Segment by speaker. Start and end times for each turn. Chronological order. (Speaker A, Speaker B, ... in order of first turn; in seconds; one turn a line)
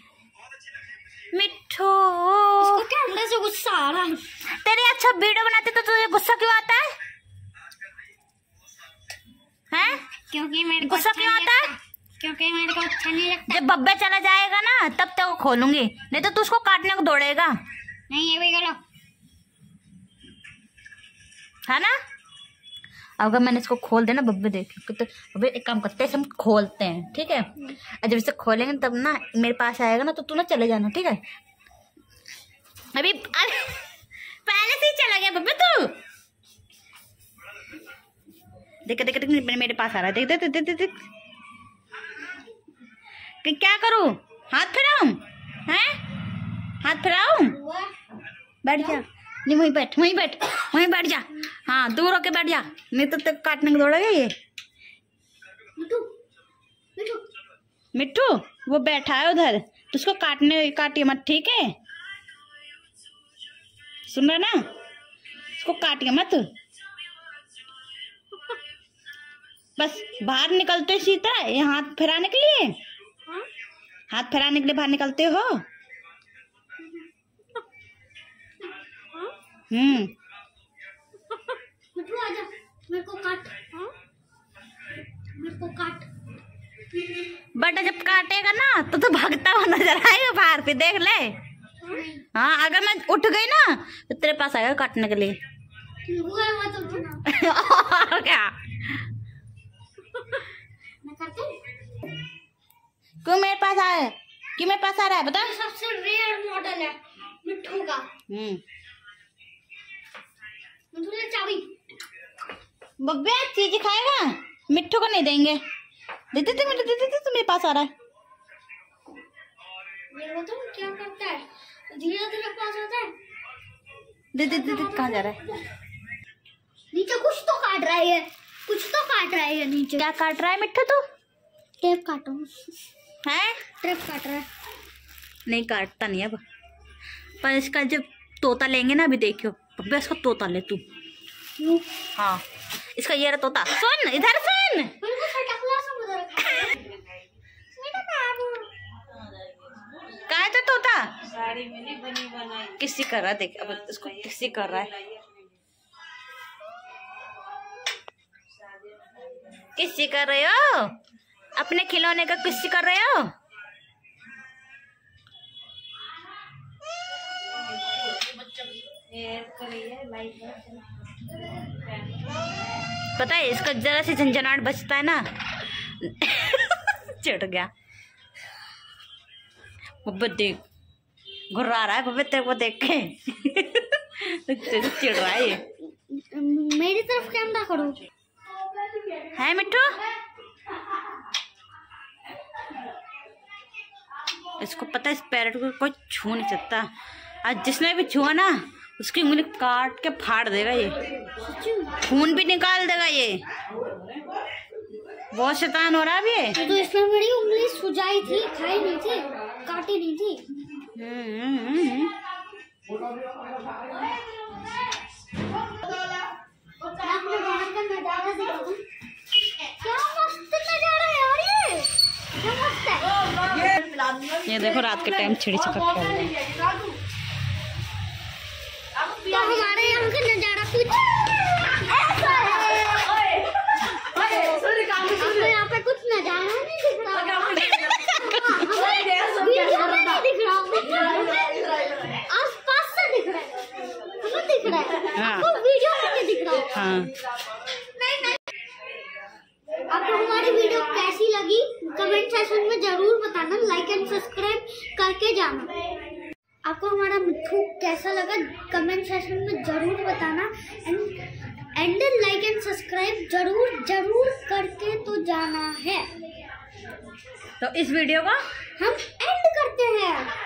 Speaker A: 1.3-2.8
Speaker B: 2.6-4.3
Speaker A: 4.5-7.0
Speaker A: 9.7-10.0
Speaker B: 10.1-13.7
Speaker A: 10.8-11.7
Speaker A: 13.5-17.5
Speaker B: 18.1-18.8
Speaker A: 21.7-21.9
Speaker A: 23.2-27.5
Speaker A: 28.0-31.2
Speaker A: 32.9-33.8
Speaker A: 34.5-35.9
Speaker A: 38.9-41.0
Speaker A: 43.4-46.0
Speaker A: 46.8-47.5
Speaker B: 47.4-47.9
Speaker A: 48.6-54.3
Speaker B: 55.8-56.1
Speaker B: 57.0-57.2
Speaker A: 57.9-61.7
Speaker A: 64.1-64.6
Speaker A: 65.6-66.5
Speaker A: 69.8-72.7
Speaker A: 74.1-75.6
Speaker A: 79.7-80.1
Speaker B: 81.9-83.9
Speaker B: 85.4-86.1
Speaker A: 87.5-91.3
Speaker B: 91.8-92.2
Speaker A: 92.3-95.3
Speaker B: 96.0-97.2
Speaker A: 97.3-98.5
Speaker B: 101.0-101.6
Speaker A: 103.2-105.5
Speaker B: 105.3-108.1
Speaker A: 108.3-108.6
Speaker B: 110.9-111.7
Speaker A: 113.0-115.6
Speaker A: 116.3-117.9
Speaker B: 120.1-123.1
Speaker A: 124.3-125.4
Speaker B: 124.5-125.5
Speaker B: 126.9-130.1
Speaker A: 130.0-131.0
Speaker B: 131.8-132.6
Speaker A: 133.2-133.6
Speaker B: 133.8-134.5
Speaker A: 135.5-136.4
Speaker A: 137.4-140.8
Speaker B: 141.6-141.8
Speaker A: 142.2-142.4
Speaker A: 142.9-144.9
Speaker B: 145.0-146.9
Speaker B: 147.7-148.7
Speaker A: 150.3-151.3
Speaker A: 152.5-154.9
Speaker A: 159.7-160.9
Speaker A: 161.6-163.3
Speaker A: 173.2-175.2
Speaker A: 176.0-177.7
Speaker A: 180.0-180.6
Speaker A: 181.5-185.6
Speaker B: 186.1-188.0
Speaker A: 189.3-189.9
Speaker A: 194.6-196.9
Speaker A: 197.4-201.0
Speaker B: 201.4-202.0
Speaker A: 202.0-203.4
Speaker A: 205.3-206.5
Speaker B: 206.5-210.4
Speaker A: 210.9-212.1
Speaker B: 216.8-218.8
Speaker B: 219.7-223.2
Speaker A: 224.4-226.3
Speaker B: 229.2-233.2
Speaker B: 234.1-243.6
Speaker B: 244.2-246.7
Speaker A: 245.1-245.5
Speaker A: 246.7-247.1
Speaker B: 248.0-248.4
Speaker B: 249.9-255.7
Speaker B: 256.6-266.1
Speaker A: 267.6-268.4
Speaker B: 268.8-270.3